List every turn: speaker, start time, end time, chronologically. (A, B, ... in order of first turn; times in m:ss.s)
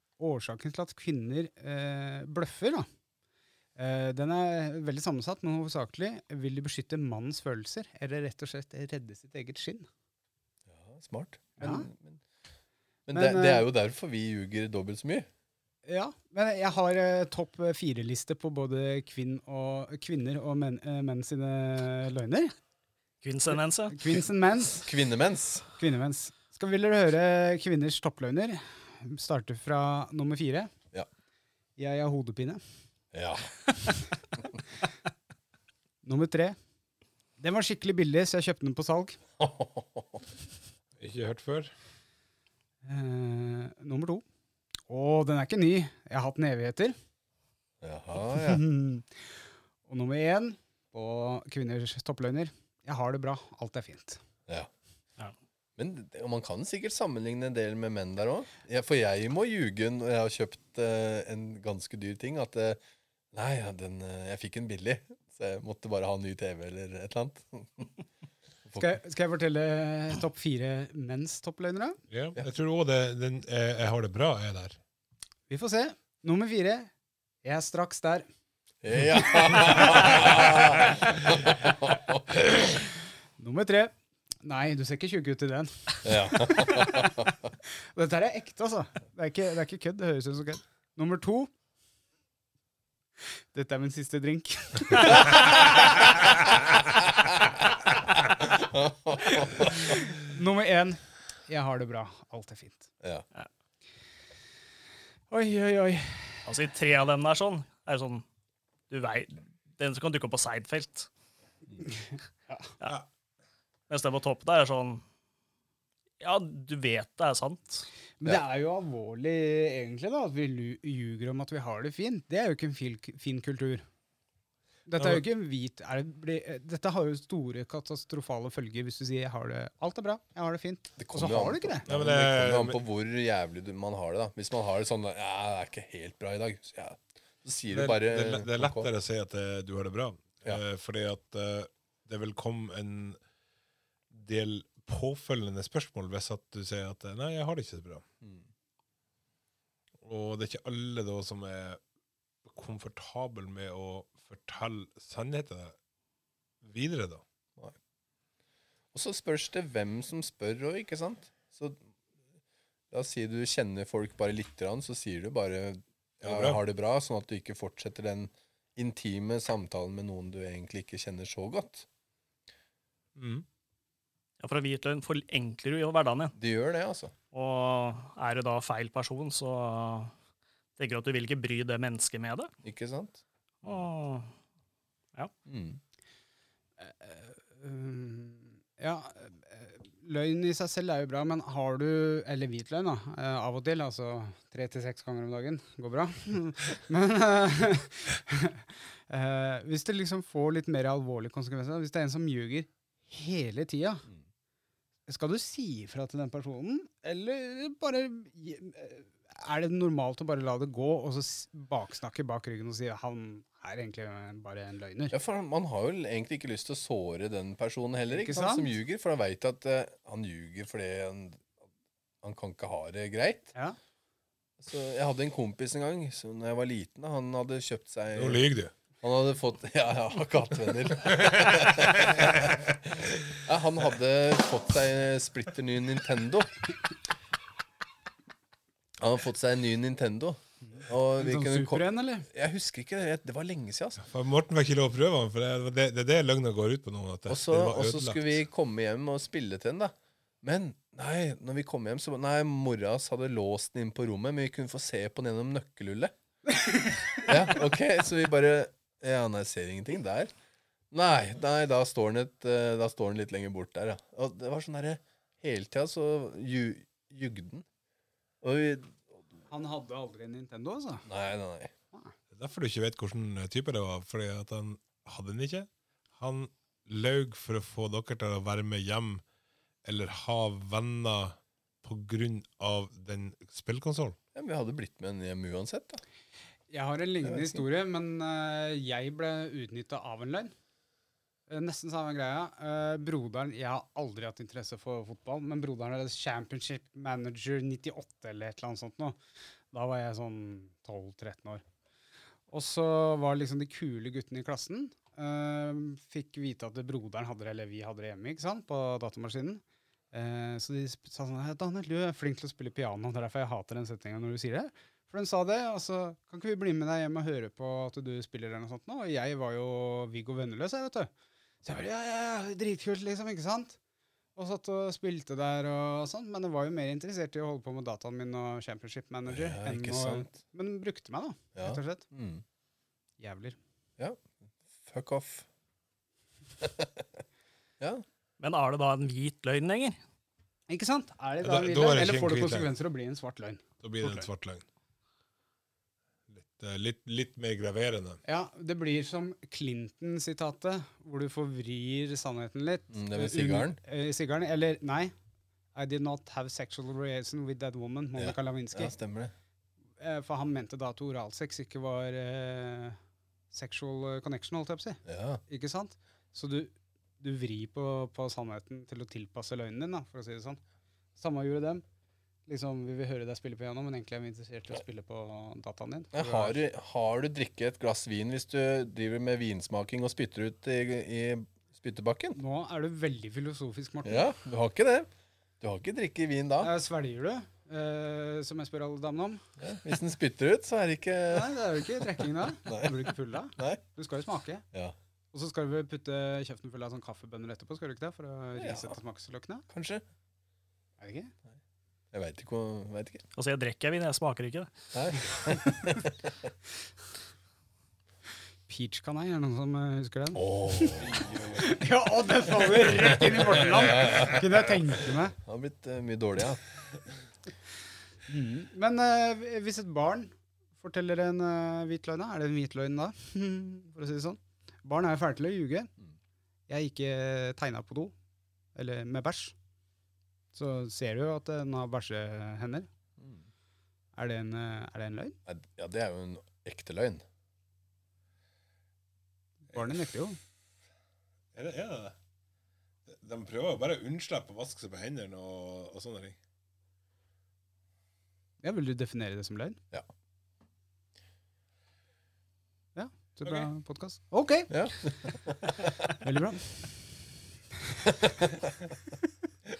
0:00.2-0:02.9 A
0:03.8-0:09.9 A
0:10.7-0:12.2 B
0:11.6-0:11.9 A
0:13.1-0:15.3 B
0:13.1-0:13.6 A
0:15.8-0:22.5 A
0:23.2-0:24.0 C
0:23.9-0:24.9 A
0:24.8-0:25.6 B
0:25.8-0:30.7 A
0:31.8-0:32.6 A
0:33.1-0:33.5 B
0:36.0-0:36.6 A
0:37.4-0:39.2 A
0:39.4-0:40.2 B
0:41.0-0:41.7 D
0:42.8-0:44.2 A
0:44.9-0:47.0 A
0:47.8-0:48.6 B
0:48.3-0:49.2 A
0:49.8-0:54.2 A
0:55.8-1:02.8 B
1:03.3-1:07.9 B
1:08.8-1:12.0 A
1:12.1-1:14.8 D
1:15.5-1:16.9 A
1:17.4-1:18.3 A
1:18.8-1:22.2 B
1:23.4-1:31.5 A
1:26.0-1:27.4 B
1:33.5-1:36.1 A
1:38.5-1:39.8 B
1:39.2-1:42.9 A
1:45.3-1:46.4 A
1:46.4-1:48.2 C
1:48.9-1:51.1 C
1:53.9-1:55.0 C
1:56.2-1:57.9 C
1:58.2-2:03.8 A
2:04.9-2:11.8 A
2:05.0-2:05.2 D
2:11.0-2:18.9 B
2:11.9-2:12.8 D
2:17.7-2:23.2 D
2:24.1-2:28.0 D
2:30.0-2:31.8 D
2:32.4-2:35.7 D
2:36.6-2:37.2 D
2:38.9-2:41.8 B
2:42.9-2:51.9 B
2:46.2-2:46.6 D
2:53.2-2:53.4 D
2:54.4-2:56.3 C
2:56.4-2:57.1 B
2:57.3-3:00.1 C
3:00.8-3:02.5 C
3:02.6-3:03.2 B
3:03.6-3:04.3 C
3:05.4-3:05.8 B
3:06.8-3:24.0 A
3:25.1-3:35.1 A
3:35.1-3:41.6 B
3:38.1-3:38.7 A
3:42.2-3:43.5 B
3:44.6-3:48.4 B
3:48.1-3:48.7 D
3:49.0-3:56.5 B
3:51.1-3:52.6 D
3:59.0-4:04.0 B
4:01.2-4:02.3 A
4:04.0-4:08.4 D
4:07.3-4:16.1 B
4:17.2-4:20.3 B
4:20.9-4:27.6 B
4:28.4-4:29.2 B
4:29.5-4:31.0 A
4:31.0-4:31.7 B
4:32.3-4:39.2 D
4:39.8-4:44.2 D
4:44.3-4:46.0 B
4:46.7-4:50.5 A
4:47.2-4:47.6 B
4:51.5-4:59.2 A
4:59.7-5:01.6 A
5:02.5-5:21.1 A
5:21.6-5:23.8 A
5:24.4-5:32.0 A
5:29.3-5:30.3 B
5:31.5-5:32.4 B
5:33.2-5:33.6 A
5:34.0-5:34.2 B
5:34.8-5:35.4 B
5:36.6-5:37.0 B
5:38.4-5:40.0 C
5:40.7-5:44.3 A
5:41.4-5:42.7 D
5:43.8-5:44.6 D
5:46.3-5:48.2 D
5:48.2-5:55.1 A
5:52.9-5:53.8 B
5:55.7-5:58.9 A
5:58.2-5:59.3 B
6:00.0-6:03.0 A
6:03.5-6:10.6 A
6:05.0-6:05.4 B
6:11.2-6:11.8 A
6:12.5-6:16.6 A
6:16.1-6:22.4 B
6:22.4-6:24.3 A
6:24.0-6:26.7 B
6:26.6-6:29.4 A
6:29.6-6:33.8 B
6:31.3-6:34.6 A
6:35.3-6:39.6 A
6:38.6-6:39.0 B
6:39.7-6:40.0 B
6:41.0-6:41.3 A
6:42.1-6:43.2 B
6:43.4-6:44.7 C
6:44.9-6:46.2 B
6:48.7-6:55.3 A
6:50.3-6:51.4 B
6:51.0-6:51.6 D
6:53.7-6:54.4 B
6:55.4-6:56.6 B
6:58.3-7:05.9 A
7:06.7-7:08.1 A
7:08.7-7:09.5 A
7:10.5-7:12.9 A
7:14.2-7:15.4 A
7:15.4-7:17.2 B
7:19.7-7:20.4 A
7:21.5-7:22.1 D
7:23.1-7:26.4 D
7:28.6-7:29.8 A
7:32.9-7:34.7 A
7:34.7-7:35.8 B
7:36.2-7:37.0 A